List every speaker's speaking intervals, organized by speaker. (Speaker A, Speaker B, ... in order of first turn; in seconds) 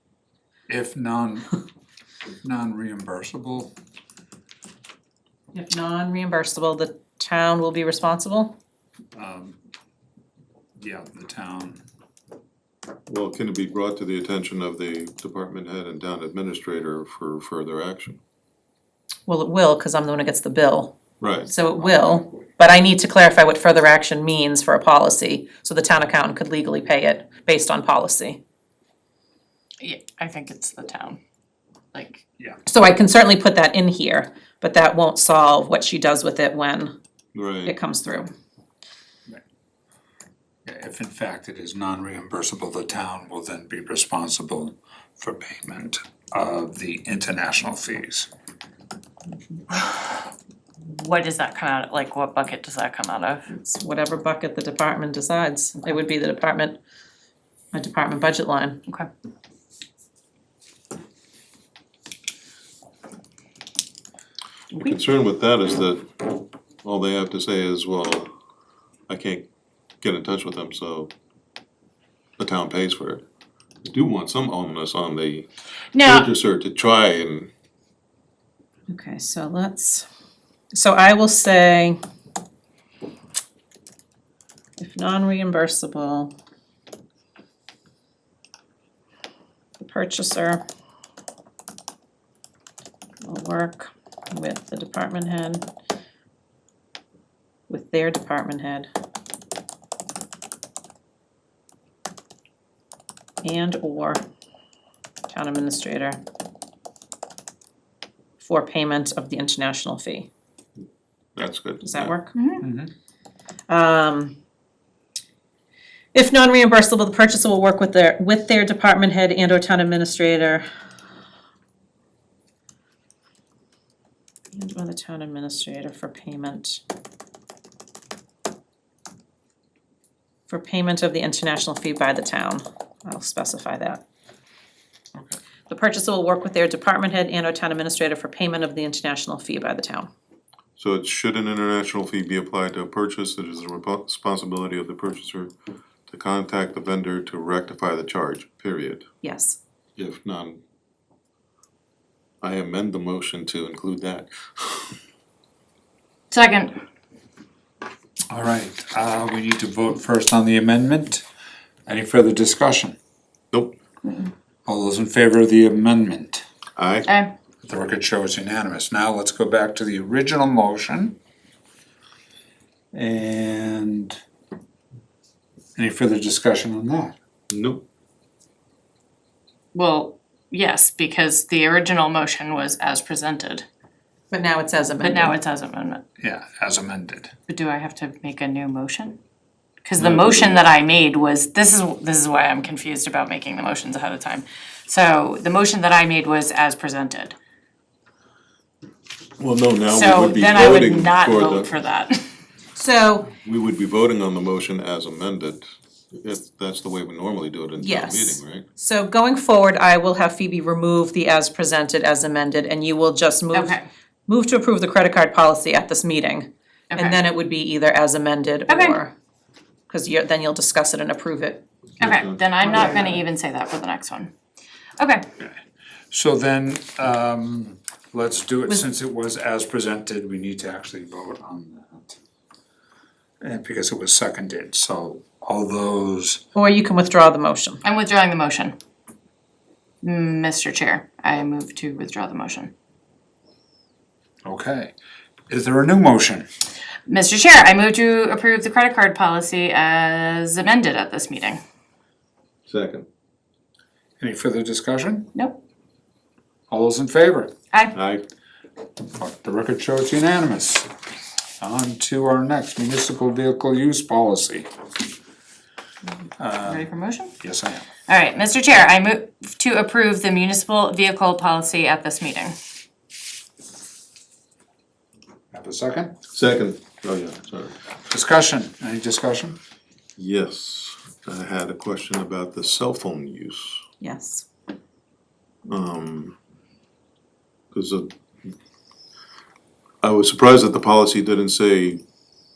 Speaker A: 0.7-1.5, 2.4-3.7, 9.1-9.6, 10.8-11.8, 21.8-22.4, 40.6-48.3, 112.6-112.9, 158.3-161.2, 161.8-163.0, 164.7-166.4, 167.6-171.2, 172.9-174.2, 175.8-177.2, 186.2-187.3, 226.1-232.2, 233.4-236.4, 244.4-244.9, 245.5-246.5, 254.2-255.3, 256.7-257.5, 259.1-260.9, 261.6-264.7, 266.4-267.9, 275.5-276.1, 278.1-279.6
Speaker B: 5.5-8.6, 19.3-28.4, 32.7-36.9, 37.6-38.3, 53.5-56.8, 57.7-58.8, 78.9-80.0, 80.7-82.0, 84.8-86.3, 89.8-90.6, 93.2-95.6, 97.7-98.9, 103.4-104.2, 105.3-106.2, 108.4-110.3, 111.8-112.3, 113.7-114.3, 116.1-120.7, 124.5-126.8, 130.5-134.0, 135.7-140.1, 149.2-149.6, 184.3-185.4, 202.8-203.3, 207.8-213.8, 214.3-219.1, 219.9-221.6, 222.7-223.0, 236.5-237.8, 284.0-284.5
Speaker C: 13.1-18.2, 21.2-21.5, 37.3-37.7, 64.7-68.3, 69.1-69.5, 70.0-71.1, 72.4-73.2, 73.8-75.5, 76.0-77.5, 111.3-112.1, 140.8-145.5, 146.1-149.1, 149.9-150.6, 152.4-154.9, 166.8-167.1, 177.5-177.8, 190.0-190.6, 199.4-201.7, 203.4-208.6, 222.0-222.4, 252.7-253.1, 257.9-258.2, 276.3-277.8, 280.2-283.8, 285.7-286.4, 287.7-288.5, 290.0-292.0
Speaker D: 29.8-31.2, 31.9-32.2, 50.9-53.5, 75.9-76.3, 112.3-112.7, 156.3-156.8, 164.0-164.3, 167.1-167.3, 179.7-183.7, 185.0-186.0, 187.5-189.2, 189.8-197.3, 199.9-202.3, 213.5-213.8, 216.9-217.2, 218.7-219.0, 222.0-224.3, 225.0-225.2, 237.8-238.8, 240.0-242.7, 247.1-251.6, 255.3-255.6, 266.6-267.4, 268.1-272.6